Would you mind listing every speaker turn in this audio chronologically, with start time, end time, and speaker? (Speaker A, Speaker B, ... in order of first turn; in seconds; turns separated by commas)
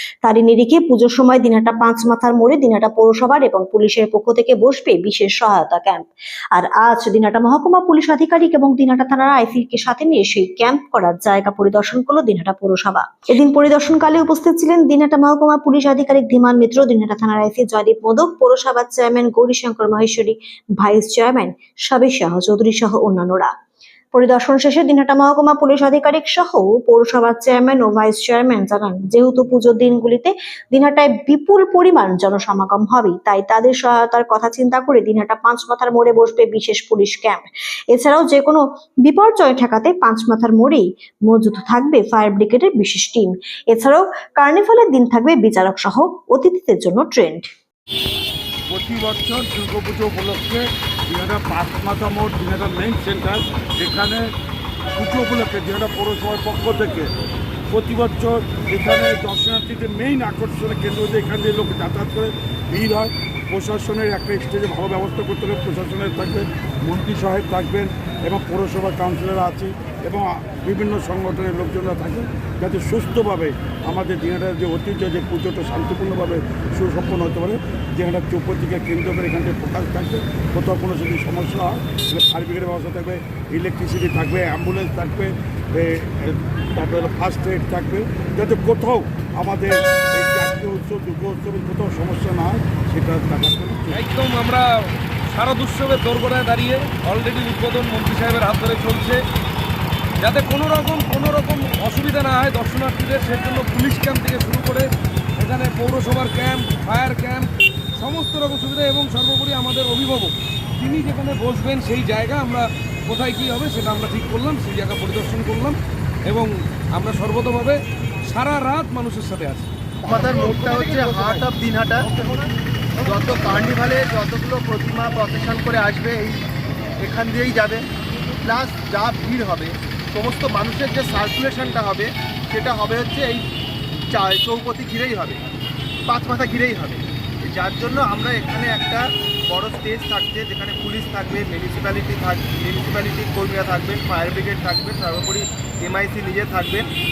Speaker A: 0.2-23.5, Speaker A: 24.1-47.5, Speaker B: 48.7-54.3, Speaker B: 55.0-57.1, Speaker B: 57.7-94.0, Speaker C: 93.9-99.2, Speaker C: 100.2-117.8, Speaker C: 118.3-119.7, Speaker D: 120.0-122.1, Speaker C: 120.5-121.4, Speaker D: 123.0-126.4, Speaker D: 127.0-127.8, Speaker D: 128.4-133.4, Speaker D: 134.1-135.4, Speaker D: 136.1-146.9